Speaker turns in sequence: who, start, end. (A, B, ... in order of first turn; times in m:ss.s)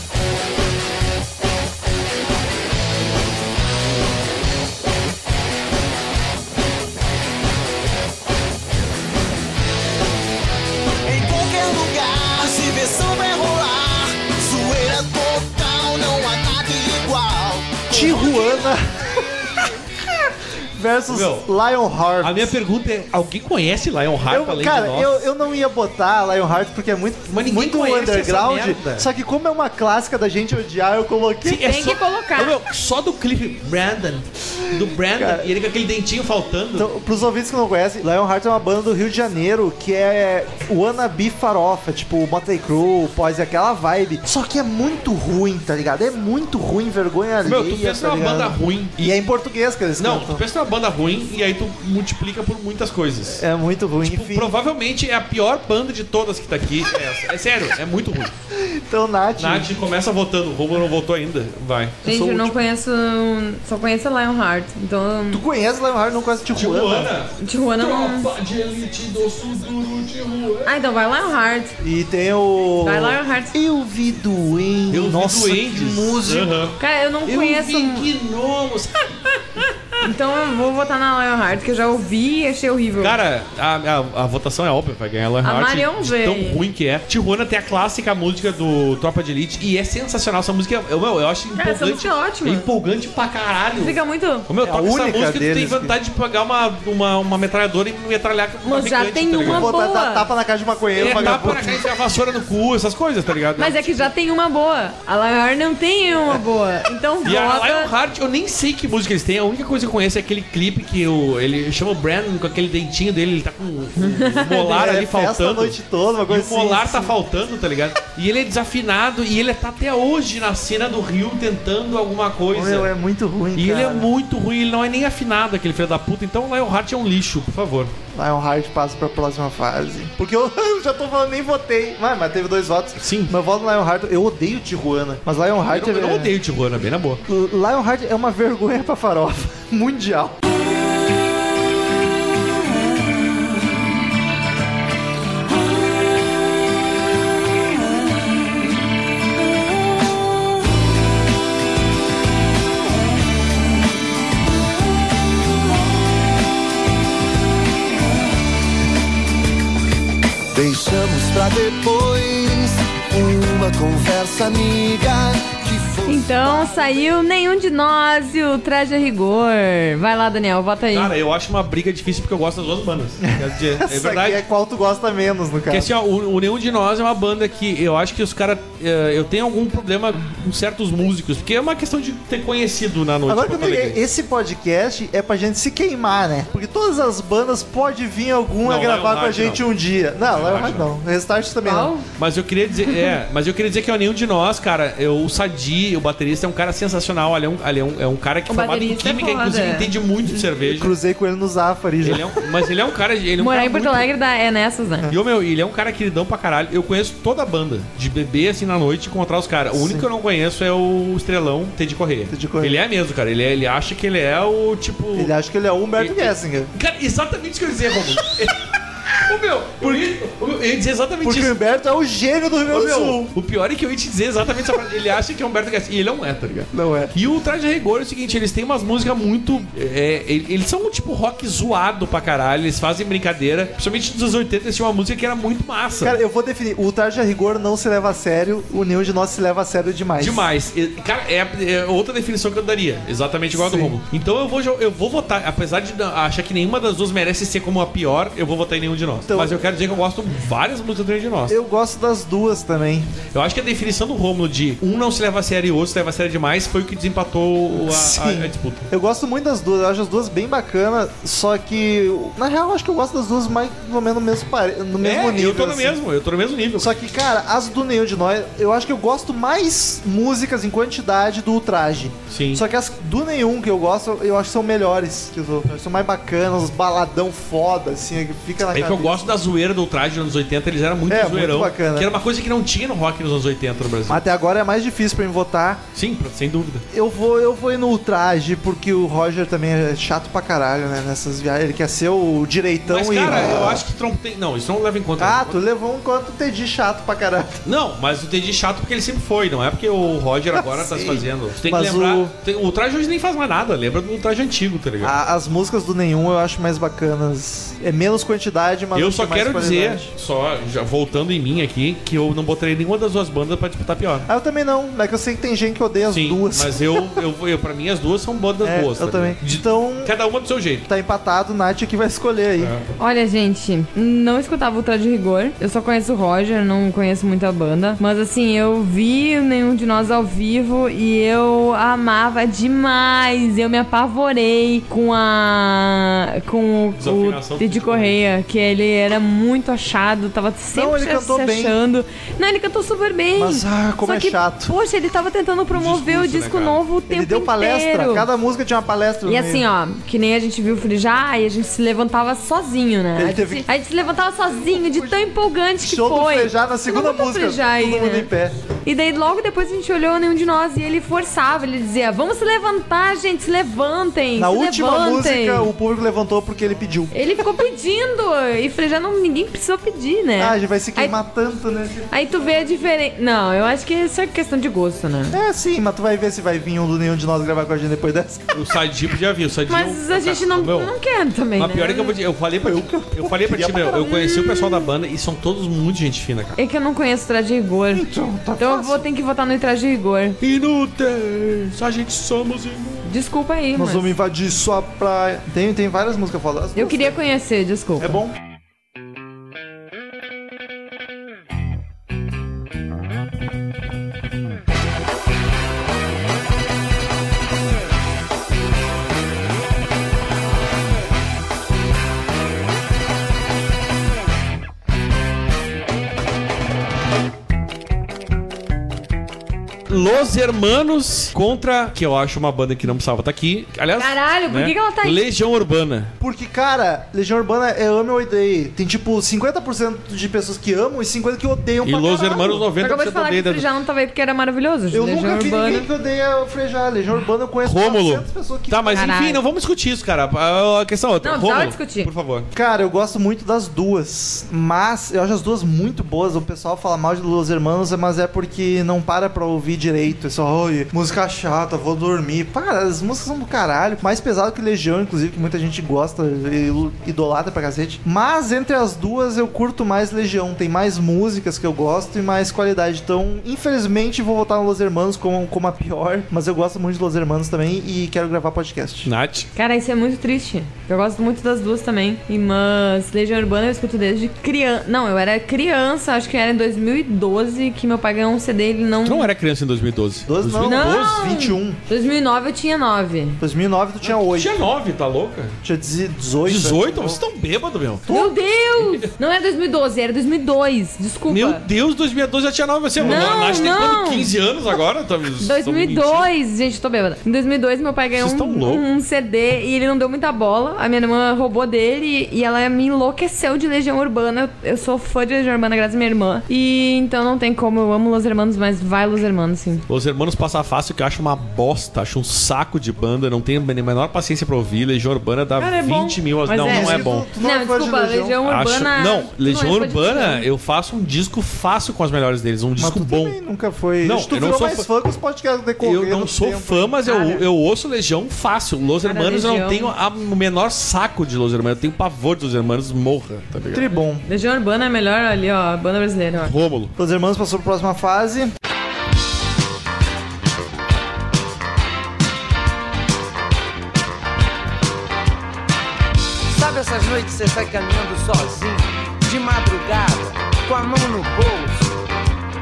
0:11.0-0:19.7 A
0:17.9-0:22.5 B
0:21.1-0:21.5 C
0:22.2-0:25.2 C
0:24.2-0:31.7 B
0:27.3-0:29.1 C
0:31.4-0:36.9 C
0:31.6-0:32.6 D
0:34.7-0:35.5 B
0:36.8-0:50.4 B
0:47.4-0:49.2 C
0:50.0-0:53.4 C
0:53.3-0:54.5 B
0:54.0-0:58.3 C
0:58.5-0:59.7 B
0:59.4-1:02.0 C
1:02.0-1:05.4 D
1:02.0-1:02.5 B
1:05.3-1:07.1 B
1:06.5-1:10.7 C
1:07.4-1:08.3 D
1:10.6-1:11.8 D
1:11.8-1:16.7 B
1:12.8-1:13.6 D
1:14.9-1:19.1 C
1:16.8-1:18.1 D
1:19.6-1:23.2 D
1:23.0-1:39.7 C
1:25.4-1:26.6 D
1:31.6-1:32.7 D
1:33.8-1:34.4 D
1:34.6-1:36.0 B
1:38.6-1:40.3 D
1:39.4-1:41.9 B
1:40.9-1:44.1 C
1:43.6-1:47.9 D
1:47.2-1:55.8 C
1:54.0-1:54.6 D
1:54.5-1:57.1 B
1:56.3-2:02.9 C
2:02.5-2:04.1 B
2:03.5-2:07.9 C
2:08.2-2:16.3 B
2:13.0-2:13.3 C
2:15.7-2:17.2 C
2:17.3-2:20.4 B
2:40.5-2:47.0 A
2:46.0-2:51.1 D
2:50.9-2:54.4 C
2:53.2-2:55.9 B
2:55.7-3:04.0 C
3:03.3-3:11.9 B
3:08.6-3:09.6 C
3:10.2-3:10.9 C
3:11.6-3:12.0 D
3:12.2-3:20.9 C
3:18.5-3:19.9 D
3:20.3-3:22.5 B
3:22.0-3:24.0 C
3:23.4-3:25.1 D
3:25.1-3:35.3 C
3:29.7-3:30.1 B
3:32.3-3:32.8 B
3:35.1-3:36.7 B
3:36.0-3:41.6 C
3:39.8-3:40.1 B
3:41.2-3:43.3 B
3:42.7-3:56.2 C
3:46.7-3:47.1 B
3:56.0-4:00.5 B
4:00.2-4:11.6 C
4:03.5-4:04.0 B
4:09.3-4:09.6 B
4:11.5-4:13.1 B
4:13.3-4:18.8 C
4:17.8-4:26.0 B
4:25.0-4:26.9 C
4:26.8-4:39.3 B
4:32.3-4:32.6 C
4:38.7-4:44.2 C
4:41.1-4:42.1 B
4:44.1-4:45.8 B
4:45.9-4:46.8 C
4:46.9-4:53.8 B
4:52.9-4:55.6 C
4:55.2-4:57.6 B
4:57.6-5:05.1 C
5:00.5-5:02.3 B
5:05.0-5:10.1 B
5:08.9-5:14.3 C
5:14.3-5:17.2 B
5:16.1-5:20.8 C
5:18.6-5:20.1 B
5:20.9-5:22.7 B
5:22.6-5:22.9 C
5:23.0-5:48.3 D
5:37.0-5:38.2 C
5:40.7-5:41.8 B
5:43.4-5:44.7 B
5:45.7-5:46.8 C
5:47.1-5:49.6 B
5:49.2-5:58.3 D
5:53.2-5:53.6 B
5:54.7-5:55.2 B
5:55.8-5:58.6 B
5:58.8-6:05.7 D
6:04.4-6:07.4 B
6:07.1-6:11.2 D
6:10.4-6:12.1 B
6:12.1-6:15.4 D
6:15.3-6:18.5 B
6:18.5-6:20.9 C
6:19.7-6:22.1 D
6:21.6-6:26.6 C
6:22.6-6:24.1 B
6:24.0-6:24.9 D
6:26.6-6:30.4 D
6:27.9-6:29.0 B
6:30.4-6:33.0 C
6:33.0-6:34.1 D
6:33.8-6:37.2 B
6:36.8-6:38.2 D
6:38.0-6:38.3 B
6:59.9-7:06.1 C
7:04.0-7:05.3 D
7:06.2-7:12.6 B
7:11.8-7:13.7 C
7:12.8-7:15.9 D
7:14.9-7:19.2 B
7:17.6-7:22.5 C
7:18.9-7:19.4 D
7:21.2-7:22.1 D
7:22.5-7:49.1 B
7:49.0-7:49.5 C
7:49.5-7:59.3 D
7:59.0-8:01.3 C
8:00.2-8:01.8 B
8:00.6-8:03.4 D
8:03.4-8:04.5 B
8:04.0-8:05.6 C
8:05.6-8:07.2 B
8:06.4-8:08.1 C
8:08.1-8:08.3 B
8:08.1-8:11.6 D
8:08.8-8:09.1 C
8:11.3-8:16.3 C
8:13.0-8:13.7 B
8:13.0-8:14.3 D
8:15.4-8:29.8 D
8:18.2-8:18.8 C
8:29.9-8:37.3 C
8:35.6-8:40.4 D
8:36.5-8:38.4 B
8:38.4-8:43.4 C
8:42.8-8:47.0 B
8:44.0-8:44.9 C
8:45.8-8:53.9 C
8:47.0-8:47.4 D
8:49.0-8:49.9 D
8:53.7-8:54.2 B
8:54.3-8:56.5 D
8:56.4-8:56.9 C
8:57.0-8:58.5 B
9:06.5-9:11.8 E